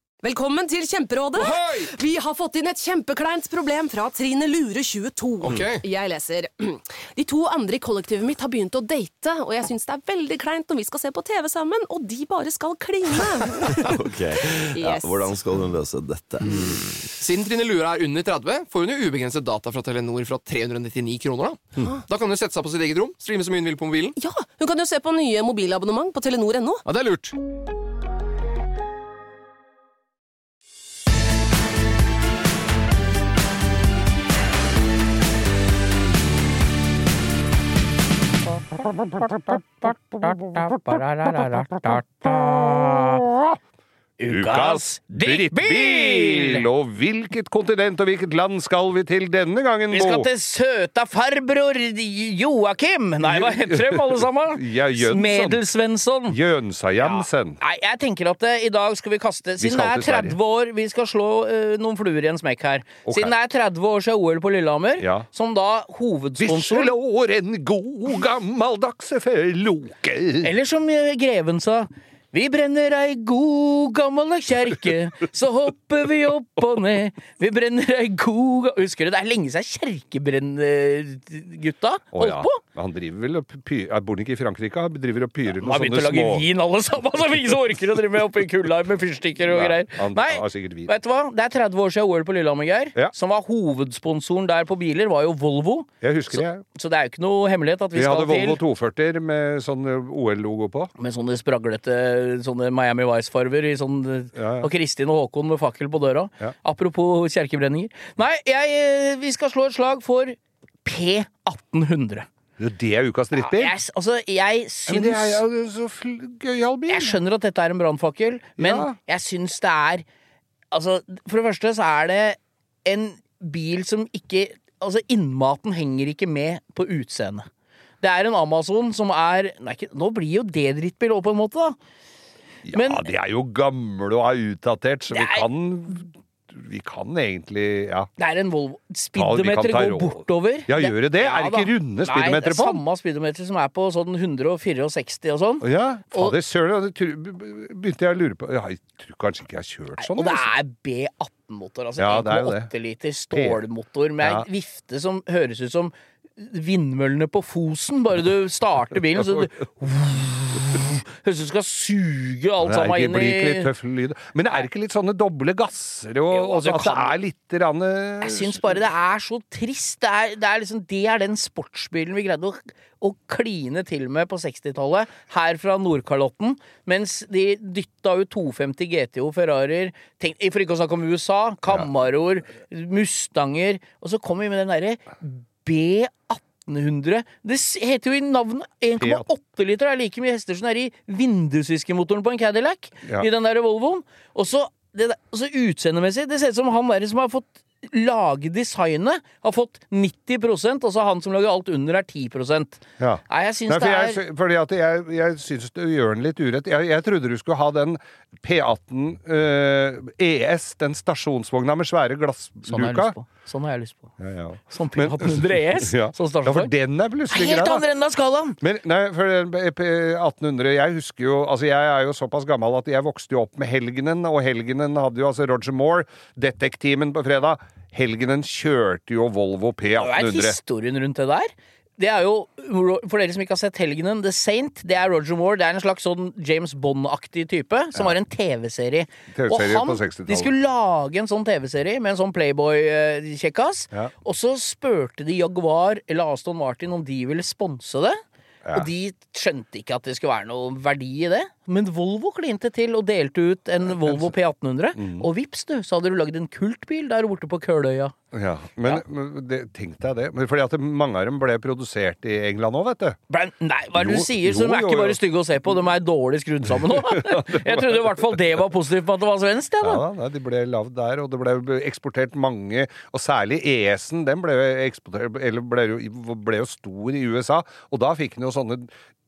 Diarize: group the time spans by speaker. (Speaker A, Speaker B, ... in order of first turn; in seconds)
Speaker A: 0.2-13.9, 14.7-15.2, 24.2-26.8
Speaker B: 1.4-1.9, 5.4-5.8, 17.2-24.1, 26.9-27.4
Speaker C: 13.7-17.0
Speaker D: 38.7-43.6, 44.3-50.3, 53.2-55.6, 56.3-57.6, 59.6-60.4, 63.1-63.3, 65.0-65.3, 66.4-70.5, 82.1-86.5, 89.5-90.9, 96.0-96.6, 97.9-100.9, 104.3-104.7, 112.6-113.7, 114.9-117.2, 118.6-119.0, 132.7-138.1, 139.2-142.8, 145.6-150.5, 152.0-152.7, 153.3-153.6, 154.2-154.5, 159.2-159.5, 162.6-168.8, 189.0-189.3, 203.0-213.2, 214.2-217.8, 218.6-230.6, 239.3-240.5, 248.7-248.9, 254.0-254.3, 255.0-255.3, 258.3-263.2, 263.9-265.2, 266.6-268.4, 269.8-278.9
Speaker E: 40.2-43.2, 44.2-46.7, 49.9-56.4, 57.0-66.9, 70.4-82.6, 85.6-98.6, 101.0-112.3, 113.3-115.4, 116.9-120.0, 120.7-127.5, 128.0-131.8, 132.7-133.1, 135.1-135.5, 138.2-146.4, 150.0-163.7, 166.3-167.1, 168.2-204.2, 212.7-214.1, 214.7-216.7, 217.3-218.6, 230.0-248.2, 248.7-258.1, 263.3-270.0